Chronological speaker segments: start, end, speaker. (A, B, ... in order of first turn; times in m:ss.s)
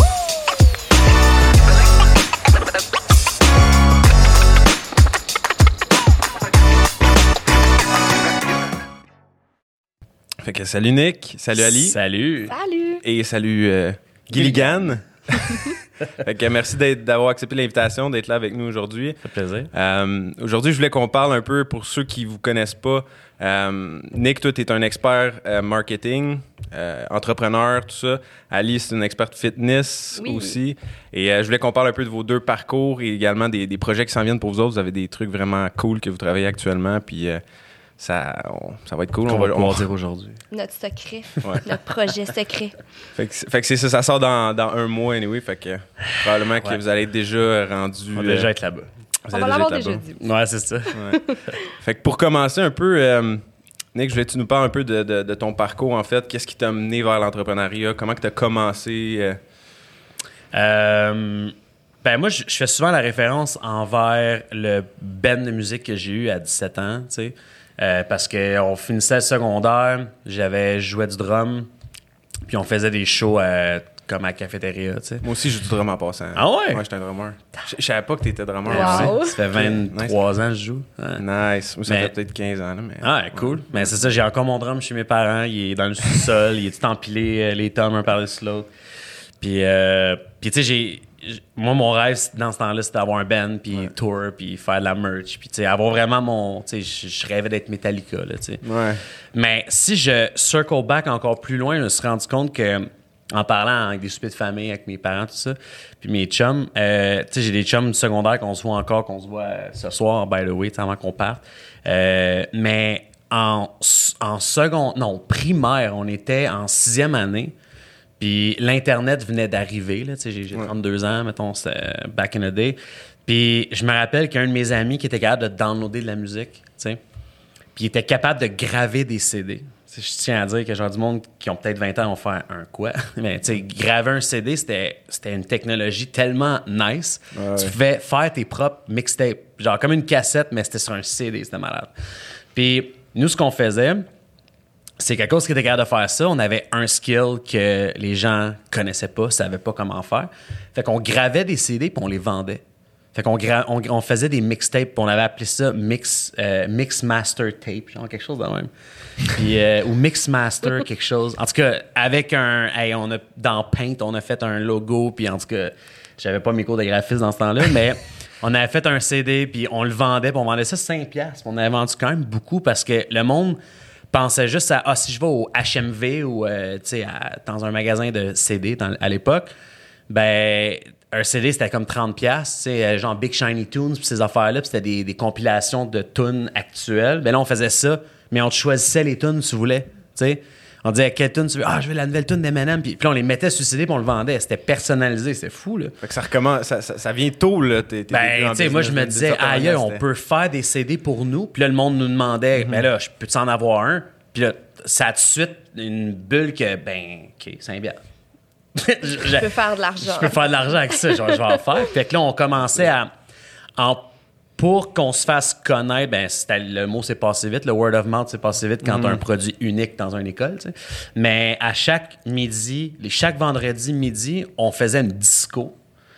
0:10.4-0:12.0 A
0:11.6-0:12.6 B
0:12.5-0:13.0 C
0:13.0-0:37.4 A
0:14.3-0:14.7 B
0:19.2-0:19.7 B
0:30.2-0:30.6 C
0:38.0-0:39.9 A
0:39.3-0:40.4 B
0:40.5-0:42.8 C
0:43.2-0:48.5 A
0:48.1-0:48.9 B
0:49.3-0:50.0 A
0:49.3-0:50.2 C
0:50.2-0:51.2 B
0:51.8-0:59.4 A
1:00.5-1:11.7 B
1:12.5-1:15.2 B
1:15.2-1:20.2 A
1:16.4-1:16.8 B
1:18.7-1:21.2 B
1:18.7-1:19.4 C
1:21.2-1:23.1 A
1:21.9-1:22.1 B
1:23.0-1:28.7 B
1:29.4-1:38.6 B
1:38.6-1:39.0 A
1:39.3-1:57.5 B
1:58.2-2:07.0 B
2:07.8-2:21.9 B
2:17.4-2:17.7 A
2:22.5-2:24.1 B
2:25.0-2:32.6 B
2:33.1-2:38.7 B
2:39.3-2:53.6 B
2:54.1-2:59.5 B
3:00.1-3:16.0 B
3:16.0-3:20.0 A
3:18.1-3:28.0 B
3:28.8-3:33.1 B
3:29.2-3:30.4 C
3:33.8-3:45.8 B
3:38.9-3:39.2 A